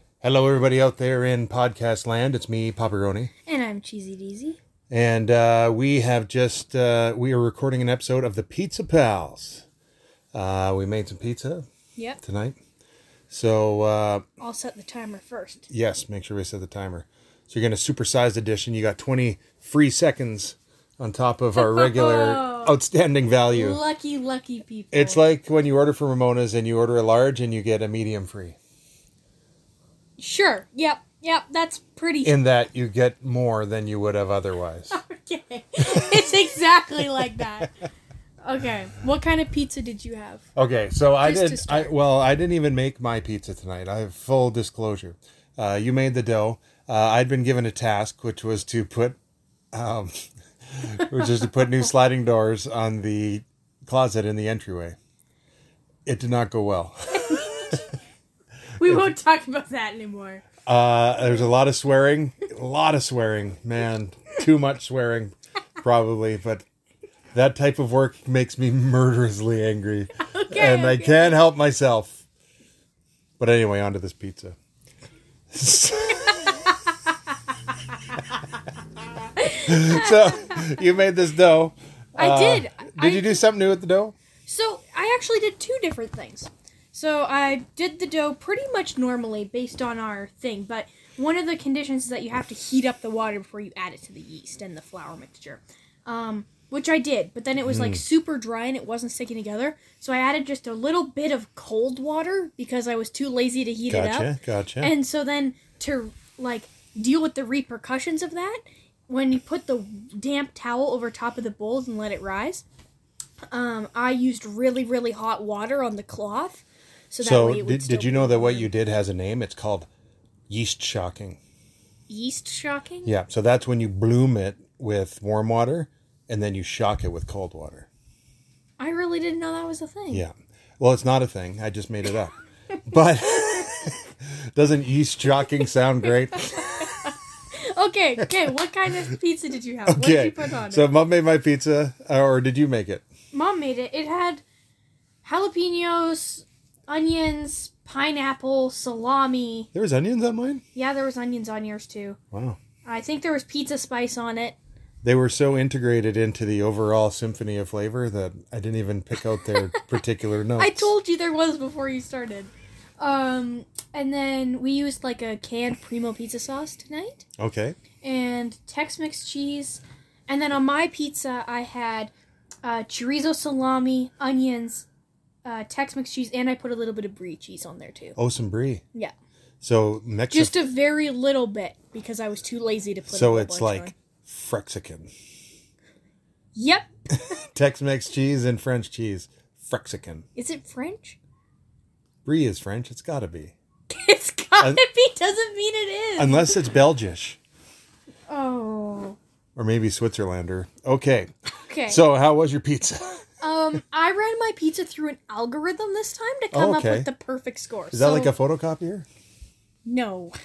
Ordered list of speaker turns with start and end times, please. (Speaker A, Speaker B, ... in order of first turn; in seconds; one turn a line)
Speaker A: 0.2-3.3
Speaker B: 3.5-4.6
Speaker A: 4.9-9.6
Speaker A: 10.3-11.7
Speaker A: 12.2-12.6
Speaker A: 13.3-14.2
Speaker B: 14.4-15.7
Speaker A: 15.7-23.8
Speaker B: 21.5-22.8
Speaker B: 23.5-25.2
Speaker A: 24.9-28.6
Speaker B: 30.2-32.4
Speaker A: 32.2-35.0
Speaker B: 34.9-37.7
Speaker A: 35.9-36.2
Speaker B: 38.4-40.4
Speaker A: 40.5-49.2
Speaker B: 41.2-41.9
Speaker A: 49.7-50.1
Speaker A: 50.7-55.0
Speaker A: 56.0-57.8
Speaker B: 57.2-57.8
Speaker B: 58.8-60.4
Speaker A: 60.6-66.6
Speaker A: 67.3-72.2
Speaker B: 70.2-71.4
Speaker A: 73.4-74.5
Speaker A: 75.5-76.5
Speaker B: 76.5-76.7
Speaker B: 79.4-80.6
Speaker A: 79.7-84.1
Speaker B: 82.2-83.4
Speaker B: 84.5-112.6
Speaker A: 97.6-98.0
Speaker A: 103.9-104.9
Speaker B: 113.5-118.7
Speaker A: 117.2-119.9
Speaker A: 120.5-121.4
Speaker B: 122.1-123.1
Speaker A: 123.0-127.9
Speaker B: 128.8-130.2
Speaker A: 130.1-136.8
Speaker B: 136.0-140.9
Speaker A: 139.9-143.0
Speaker B: 143.3-144.4
Speaker B: 145.2-149.7
Speaker A: 149.7-150.6
Speaker B: 150.7-152.2
Speaker A: 152.3-152.6
Speaker B: 152.8-154.6
Speaker A: 155.0-160.9
Speaker B: 159.6-160.0
Speaker B: 160.6-167.2
Speaker A: 167.4-167.8
Speaker B: 168.0-172.1
Speaker B: 172.6-174.8
Speaker B: 175.4-178.2
Speaker A: 178.2-178.8
Speaker A: 179.6-180.6
Speaker B: 180.3-183.9
Speaker A: 183.1-185.1
Speaker B: 186.5-187.4
Speaker A: 187.5-190.2
Speaker B: 190.3-191.2
Speaker A: 192.2-193.5
Speaker B: 193.9-196.6
Speaker A: 196.2-197.4
Speaker B: 198.3-199.2
Speaker A: 199.6-201.3
Speaker B: 201.6-202.0
Speaker A: 201.9-203.2
Speaker B: 203.4-208.3
Speaker A: 206.5-207.1
Speaker A: 207.9-209.1
Speaker B: 209.8-210.3